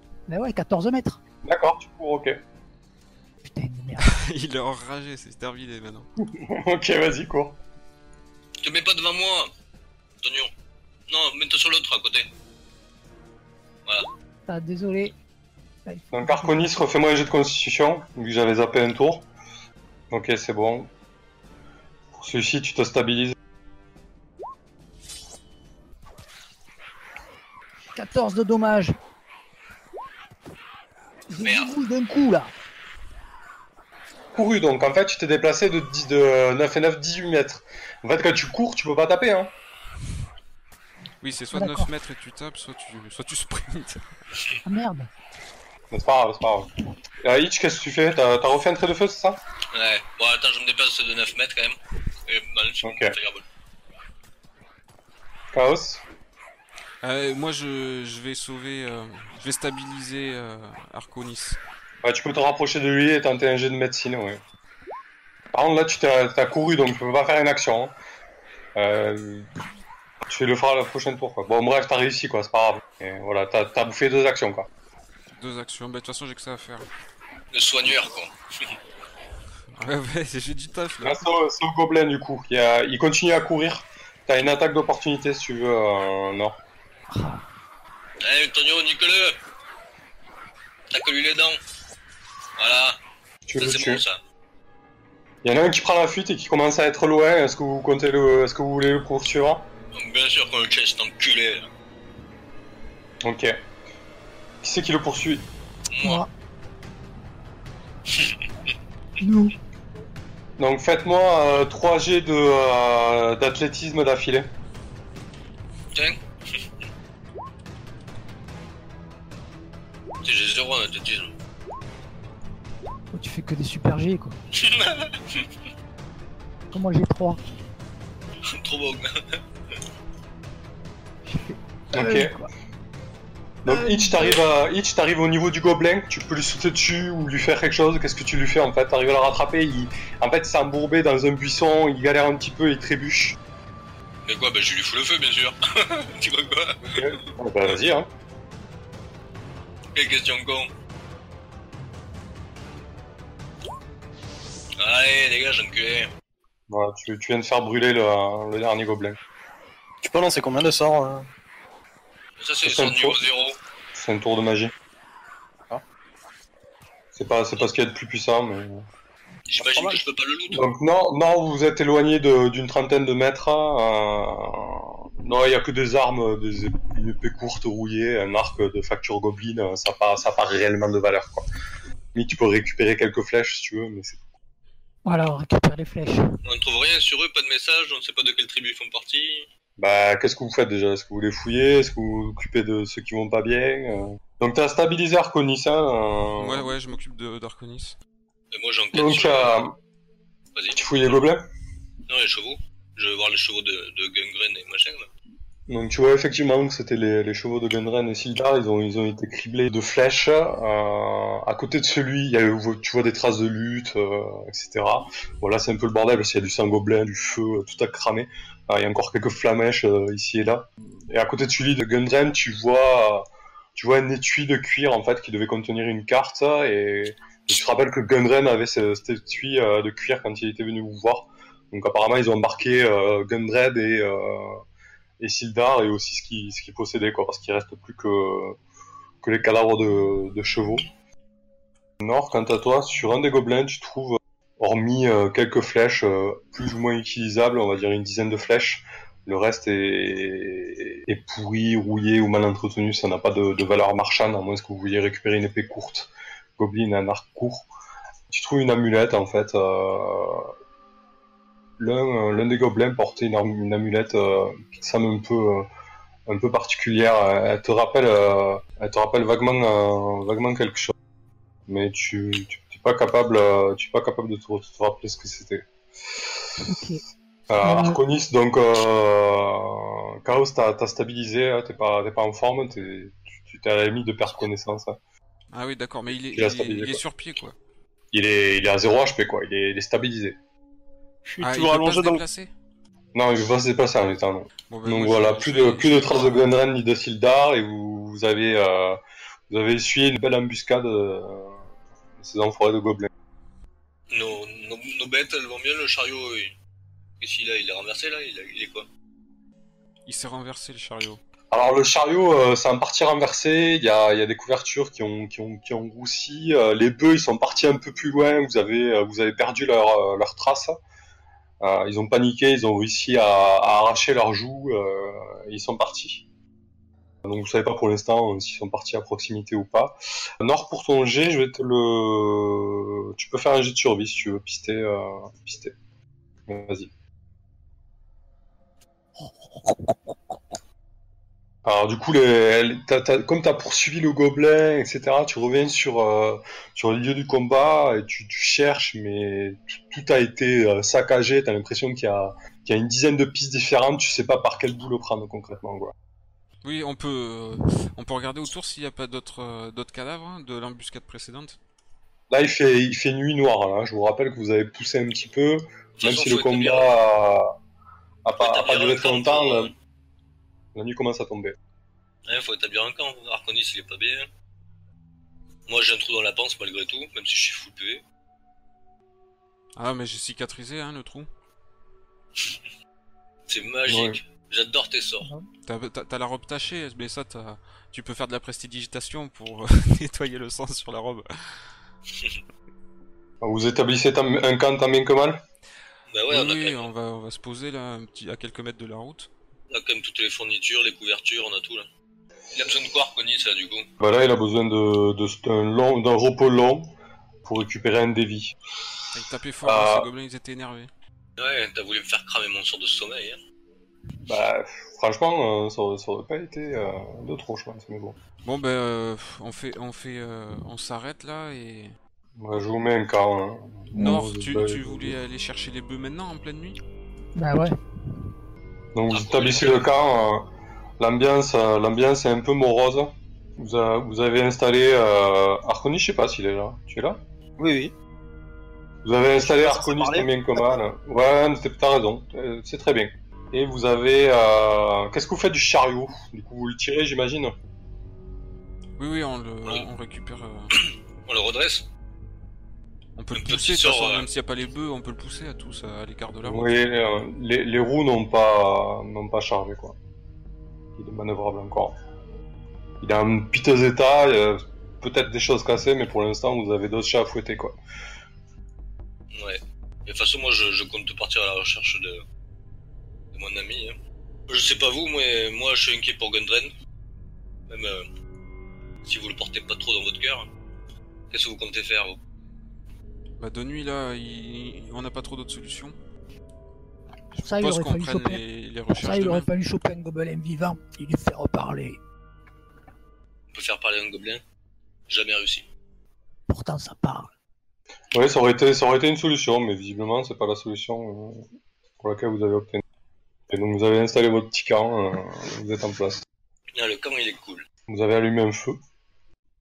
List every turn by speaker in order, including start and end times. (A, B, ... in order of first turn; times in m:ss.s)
0:00.3-0:01.2 A
0:01.4-0:02.4 B
0:03.4-0:04.2 A
0:04.0-0:06.1 C
0:06.2-0:07.6 B
0:08.6-0:09.5 D
0:10.2-0:10.5 D
0:11.1-0:12.3 D
0:14.5-0:15.1 A
0:15.8-0:16.7 A
0:16.1-0:19.3 B
0:20.1-0:20.9 B
0:22.1-0:23.3 B
0:27.9-0:28.9 A
0:31.3-0:32.5 A
0:31.4-0:31.7 D
0:34.3-0:39.5 B
0:41.2-0:44.0 C
0:41.5-0:41.9 A
0:44.6-0:45.1 A
0:45.9-0:49.4 B
0:49.7-0:53.4 D
0:52.8-0:53.1 B
0:55.5-0:56.0 B
0:57.0-1:01.6 C
1:02.0-1:04.4 B
1:05.5-1:08.0 B
1:08.7-1:09.5 B
1:10.3-1:14.7 B
1:15.3-1:16.9 C
1:17.5-1:18.7 D
1:19.7-1:21.2 C
1:21.0-1:26.6 B
1:27.1-1:27.4 A
1:28.2-1:29.4 D
1:30.9-1:31.6 D
1:32.6-1:33.0 D
1:33.5-1:34.0 B
1:33.5-1:34.2 D
1:35.4-1:39.7 B
1:39.9-1:41.7 D
1:43.2-1:43.6 B
1:44.6-1:45.5 B
1:45.9-1:46.2 D
1:46.0-1:46.3 A
1:48.1-1:48.4 D
1:49.2-1:49.6 A
1:50.6-1:54.5 B
1:55.9-1:56.6 D
2:00.2-2:01.3 D
2:03.1-2:04.4 A
2:04.5-2:05.4 D
2:06.7-2:07.4 A
2:08.4-2:09.4 D
2:11.3-2:12.5 A
2:11.9-2:12.3 B
2:13.6-2:23.4 B
2:13.7-2:14.4 A
2:24.2-2:27.2 D
2:26.8-2:28.1 B
2:29.9-2:30.7 D
2:34.8-2:36.1 D
2:36.7-2:39.2 B
2:40.0-2:41.2 E
2:42.4-2:43.6 D
2:42.6-2:43.2 B
2:43.9-2:44.7 B
2:47.1-2:48.8 B
2:49.5-2:50.6 D
2:49.6-2:50.0 E
2:50.5-3:01.4 B
3:02.1-3:04.2 B
3:05.0-3:06.4 A
3:06.4-3:09.5 D
3:09.8-3:16.7 B
3:16.4-3:18.0 C
3:18.5-3:19.6 D
3:18.9-3:19.8 B
3:20.5-3:21.2 D
3:20.7-3:21.4 B
3:22.1-3:25.1 D
3:25.7-3:54.6 B
3:55.2-3:58.6 B
3:59.2-4:00.9 B
4:02.0-4:17.7 B
4:18.3-4:20.5 B
4:21.8-4:25.7 B
4:26.3-4:30.9 B
4:31.7-4:35.6 B
4:36.2-4:36.8 B
4:36.6-4:37.0 A
4:37.5-4:45.0 B
4:37.6-4:38.0 A
4:45.5-4:47.5 C
4:46.3-4:47.0 B
4:48.1-4:50.4 B
4:51.2-4:52.2 E
4:51.4-4:52.5 C
4:53.1-5:01.6 B
4:54.7-4:56.5 C
5:02.2-5:03.1 B
5:04.1-5:06.5 D
5:07.2-5:08.9 D
5:10.0-5:11.2 C
5:11.5-5:20.8 B
5:21.6-5:26.2 B
5:27.2-5:35.7 B
5:36.5-5:36.9 B
5:39.2-5:39.8 A
5:41.6-5:55.9 B
5:56.6-6:01.6 C
6:02.3-6:07.5 B
6:06.0-6:06.9 D
6:08.2-6:09.7 B
6:08.4-6:09.7 D
6:10.7-6:11.6 B
6:12.3-6:14.3 D
6:15.7-6:18.0 D
6:19.8-6:21.3 C
6:23.5-6:25.3 D
6:23.9-6:24.2 B
6:25.2-6:25.5 A
6:25.6-6:31.7 C
6:33.4-6:35.4 B
6:36.1-6:36.9 D
6:36.3-6:39.3 C
6:39.7-6:41.9 D
6:42.5-6:43.9 D
6:44.0-6:46.9 B
6:47.4-6:48.6 B
6:49.1-6:50.9 C
6:49.6-6:50.1 B
6:51.4-6:53.4 D
6:54.2-6:58.2 B
6:58.4-7:01.9 C
7:02.4-7:05.1 B
7:03.9-7:06.8 C
7:07.4-7:07.7 A
7:08.9-7:10.5 B
7:09.1-7:09.9 D
7:11.0-7:17.2 B
7:17.6-7:17.9 E
7:19.0-7:27.5 B
7:19.4-7:20.8 E
7:29.0-7:30.7 C
7:30.7-7:31.9 D
7:33.2-7:36.7 C
7:33.3-7:34.3 D
7:36.4-7:40.0 B
7:41.0-7:41.9 B
7:43.0-7:47.8 B
7:49.3-7:52.2 D
7:53.3-7:54.0 D
7:54.5-7:56.7 D
7:57.7-7:58.0 D
7:59.0-8:00.5 D
8:01.3-8:02.2 D
8:03.4-8:06.0 C
8:07.3-8:09.5 C
8:07.4-8:08.4 A
8:08.9-8:12.0 A
8:13.5-8:14.4 D
8:15.1-8:15.6 D
8:16.5-8:17.3 A
8:18.1-8:21.4 B
8:22.0-8:22.8 B
8:23.5-8:26.2 B
8:26.8-8:27.6 D
8:27.9-8:28.8 B